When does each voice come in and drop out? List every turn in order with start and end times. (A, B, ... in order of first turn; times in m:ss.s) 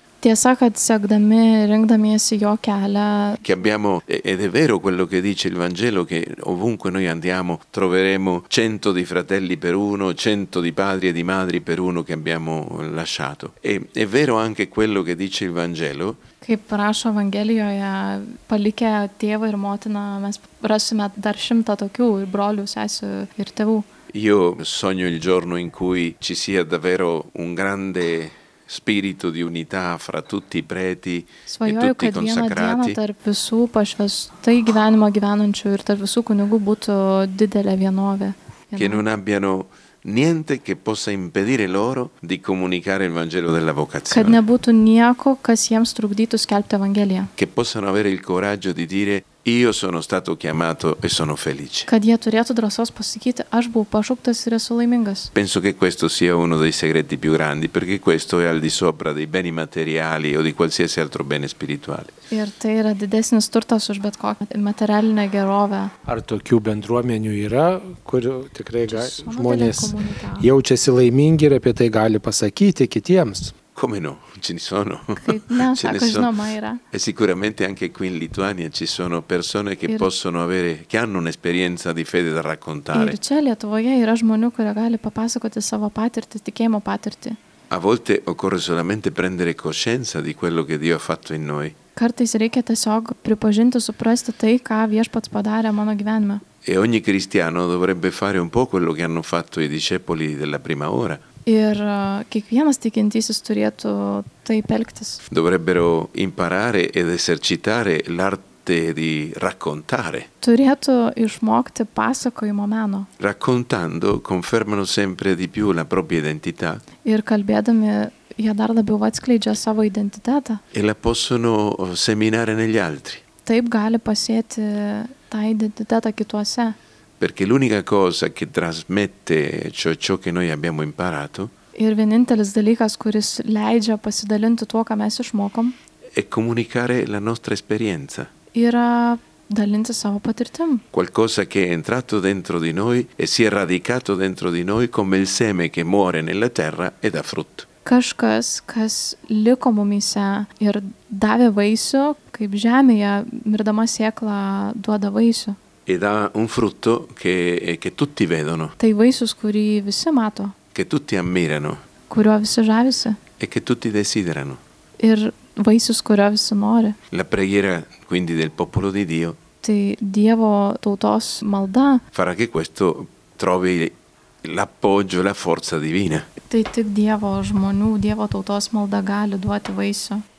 0:00.2-0:03.4 A
0:03.4-0:16.2 B
0:16.4-0:23.9 A
0:24.1-0:33.0 B
0:31.5-0:39.0 A
0:38.8-0:44.4 B
0:44.1-0:47.3 A
0:47.4-0:51.9 B
0:51.9-0:55.3 A
0:55.3-1:02.1 B
1:02.3-1:05.9 A
1:06.0-1:13.5 C
1:08.9-1:10.5 A
1:13.7-1:16.3 B
1:15.2-1:16.8 A
1:16.9-1:23.2 B
1:22.9-1:27.4 A
1:27.7-1:31.8 B
1:32.0-1:36.4 A
1:36.6-1:41.2 B
1:41.4-1:45.2 A
1:45.3-1:50.3 B
1:50.4-1:53.1 A
1:53.2-1:56.8 B
1:57.0-2:00.6 A
2:00.7-2:03.2 B
2:03.4-2:06.8 A
2:07.2-2:11.5 B
2:11.8-2:15.8 A
2:16.1-2:18.3 B
2:18.5-2:20.8 A
2:20.9-2:27.7 B
2:27.8-2:35.6 A
2:35.9-2:38.8 B
2:38.8-2:40.5 A
2:40.7-2:41.8 B
2:42.1-2:43.2 A
2:43.4-2:44.6 B
2:45.0-2:47.0 A
2:47.1-2:49.4 B
2:49.6-2:52.0 A
2:52.1-2:56.3 B
2:56.5-3:00.2 A